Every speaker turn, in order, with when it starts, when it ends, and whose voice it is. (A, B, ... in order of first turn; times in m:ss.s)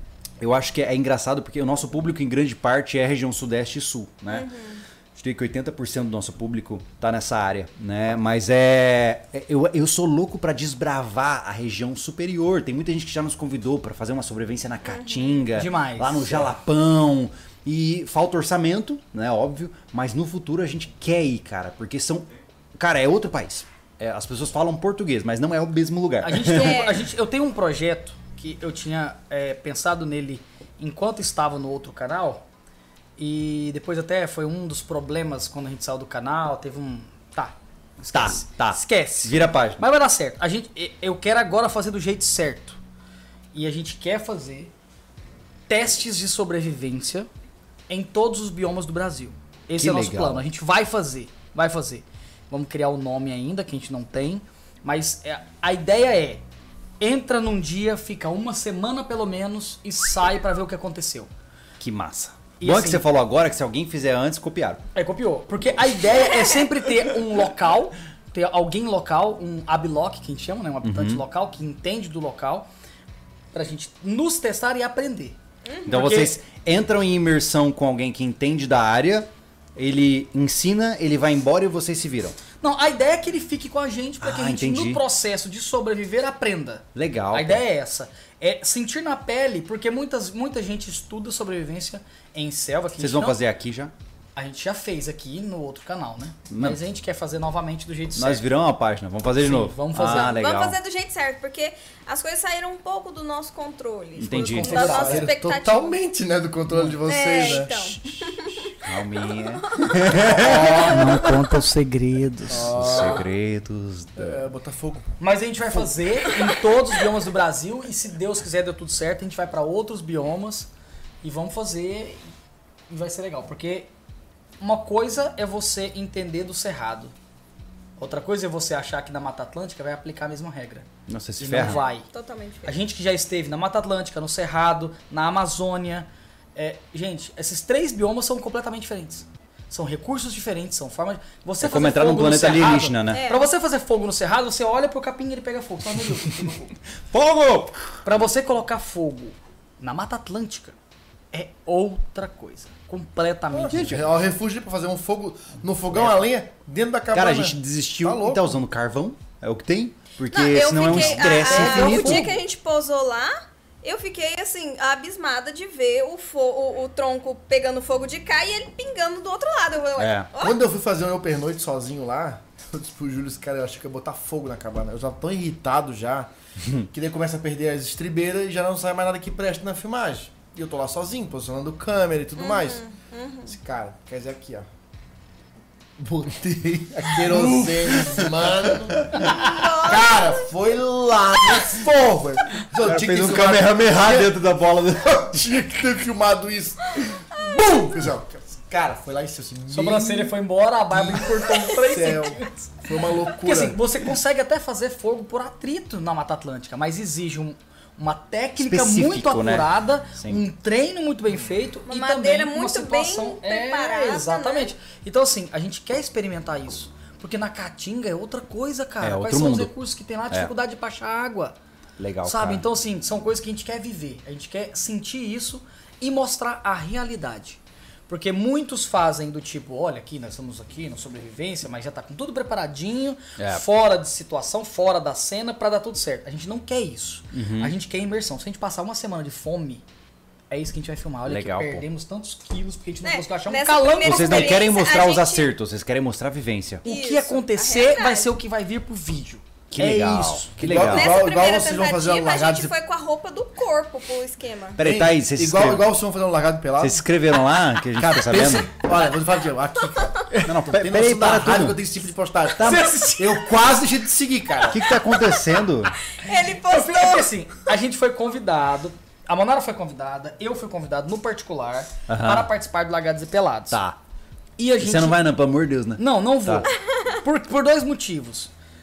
0:00.4-0:04.5 A
0:04.3-0:04.8 B
0:05.1-0:26.8 A
0:14.8-0:15.4 B
0:15.5-0:16.5 C
0:26.2-0:32.4 C
0:26.4-0:27.0 B
0:33.2-0:42.8 C
0:38.1-0:39.8 A
0:43.5-0:44.7 C
0:45.7-0:47.3 C
0:47.9-0:56.4 C
0:49.8-0:50.4 A
0:57.0-1:01.3 C
1:01.8-1:04.8 A
1:02.6-1:03.0 C
1:04.9-1:12.7 C
1:10.8-1:11.2 A
1:13.5-1:16.4 C
1:15.6-1:15.9 B
1:15.9-1:22.4 A
1:22.6-1:33.4 C
1:24.2-1:25.0 A
1:26.9-1:27.6 A
1:33.0-1:33.9 A
1:34.4-1:38.4 C
1:36.5-1:36.8 A
1:38.1-1:40.8 A
1:39.4-1:40.3 C
1:40.0-1:46.0 B
1:44.2-1:45.0 A
1:44.5-1:45.3 C
1:44.7-1:48.0 D
1:47.0-1:48.7 B
1:48.1-1:51.3 A
1:49.8-1:50.8 B
1:50.4-1:53.1 C
1:52.5-1:53.3 D
1:52.7-1:54.4 A
1:54.2-1:55.1 D
1:55.2-2:00.7 C
2:01.2-2:02.2 C
2:02.9-2:03.9 C
2:04.6-2:07.1 C
2:08.0-2:10.8 C
2:11.1-2:11.8 A
2:11.4-2:12.0 C
2:11.5-2:12.7 B
2:12.6-2:26.7 C
2:21.6-2:23.2 A
2:23.1-2:23.5 B
2:27.1-2:27.8 A
2:28.0-2:30.8 C
2:31.3-2:34.1 C
2:33.6-2:38.6 D
2:33.7-2:34.0 A
2:37.1-2:42.4 A
2:40.3-2:50.6 B
2:40.9-2:42.3 C
2:50.0-2:50.3 A
2:50.4-2:56.3 D
2:56.8-3:02.8 D
3:02.4-3:03.5 B
3:03.5-3:04.7 D
3:06.0-3:14.3 D
3:07.2-3:09.5 A
3:09.3-3:10.5 B
3:12.8-3:15.5 A
3:15.3-3:20.4 D
3:17.4-3:17.8 B
3:19.7-3:41.6 C
3:20.9-3:23.8 D
3:28.6-3:30.4 A
3:31.9-3:34.7 B
3:39.0-3:39.7 A
3:42.0-3:42.6 A
3:42.2-3:59.8 C
3:53.4-3:53.6 A
3:57.3-3:57.7 A
4:00.5-4:04.6 C
4:01.2-4:01.8 A
4:03.0-4:05.5 B
4:04.0-4:06.8 A
4:06.8-4:10.6 C
4:06.8-4:08.3 B
4:09.7-4:11.3 A
4:10.6-4:12.7 D
4:10.8-4:14.8 B
4:14.8-4:15.9 A
4:14.8-4:17.0 D
4:16.8-4:18.7 A
4:18.0-4:24.8 D
4:20.4-4:21.8 A
4:22.6-4:22.9 A
4:22.6-4:23.5 C
4:24.7-4:25.9 A
4:26.1-4:27.3 B
4:26.2-4:33.8 C
4:32.1-4:32.5 A
4:33.7-4:34.0 A
4:34.6-4:35.3 C
4:34.8-4:36.7 A
4:36.0-4:38.5 C